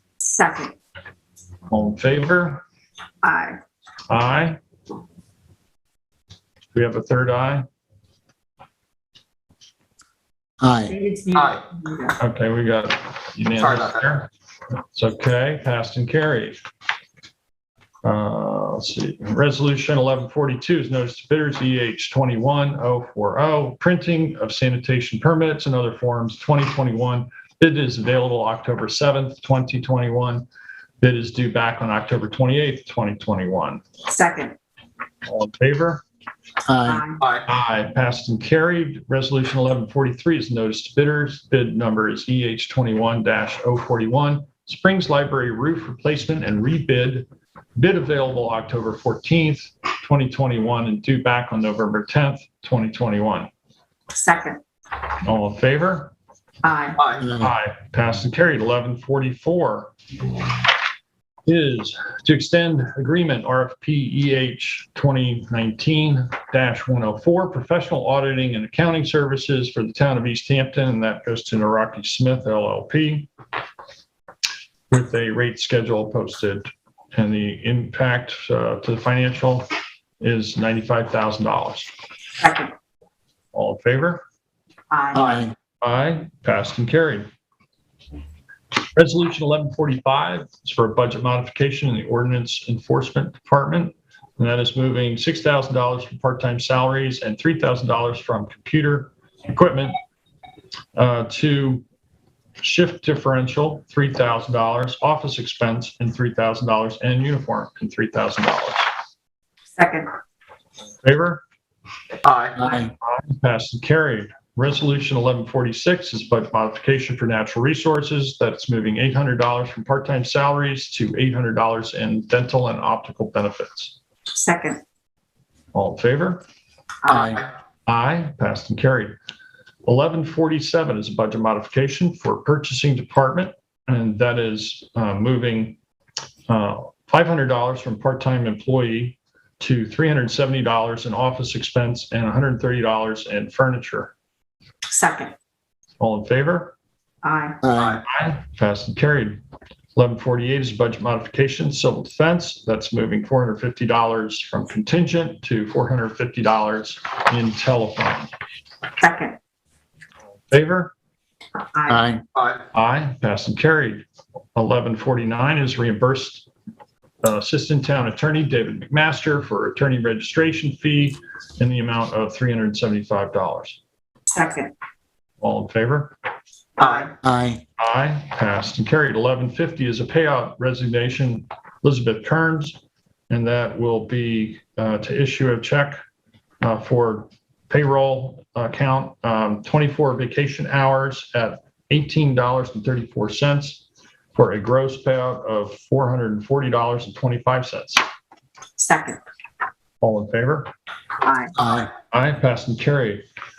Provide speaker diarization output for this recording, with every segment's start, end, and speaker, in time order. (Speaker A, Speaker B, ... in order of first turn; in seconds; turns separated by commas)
Speaker A: 0.2-0.7, Speaker B: 1.7-2.6, Speaker A: 3.2-3.6, Speaker B: 4.1-4.6, Speaker B: 6.7-7.7, Speaker C: 10.6-10.9, Speaker A: 10.9-12.2, Speaker D: 11.3-11.6, Speaker B: 12.2-16.6, Speaker D: 13.6-14.1, Speaker B: 18.0-30.4, Speaker B: 31.0-33.8, Speaker A: 34.1-34.5, Speaker B: 35.2-36.0, Speaker C: 36.6-37.0, Speaker A: 36.9-37.2, Speaker B: 37.4-53.5, Speaker A: 54.1-54.6, Speaker B: 55.2-56.1, Speaker A: 56.6-57.0, Speaker D: 57.0-57.2, Speaker B: 57.2-59.9, Speaker C: 57.3-57.5, Speaker B: 61.5-73.3, Speaker B: 74.9-79.7, Speaker B: 80.2-81.9, Speaker A: 82.4-82.7, Speaker B: 83.5-84.2, Speaker A: 84.9-85.5, Speaker C: 85.1-85.5, Speaker B: 85.8-87.3, Speaker B: 88.9-99.9, Speaker B: 100.9-101.8, Speaker B: 102.6-108.9, Speaker A: 109.8-110.1, Speaker B: 111.0-111.4, Speaker D: 112.2-112.7, Speaker C: 112.6-112.9, Speaker B: 112.7-124.0, Speaker A: 124.3-124.8, Speaker B: 125.7-126.4, Speaker C: 127.1-127.4, Speaker B: 127.9-129.1, Speaker B: 129.8-135.8, Speaker B: 136.5-144.1, Speaker A: 144.9-145.3, Speaker B: 146.0-146.7, Speaker A: 147.2-147.6, Speaker C: 147.6-148.0, Speaker B: 148.0-149.4, Speaker B: 149.9-158.3, Speaker A: 159.0-159.4, Speaker B: 160.5-160.9, Speaker A: 161.7-162.0, Speaker C: 161.9-162.2, Speaker B: 162.7-164.0, Speaker B: 164.5-166.5, Speaker B: 167.2-173.8, Speaker A: 174.3-174.7, Speaker B: 175.4-176.1, Speaker A: 176.8-177.1, Speaker D: 176.8-177.1, Speaker C: 177.2-177.6, Speaker B: 177.8-182.8, Speaker B: 183.3-186.0, Speaker B: 186.6-193.8, Speaker B: 194.3-198.0, Speaker A: 198.8-199.2, Speaker B: 200.0-200.7, Speaker A: 201.2-201.5, Speaker C: 201.6-201.9, Speaker B: 202.1-203.2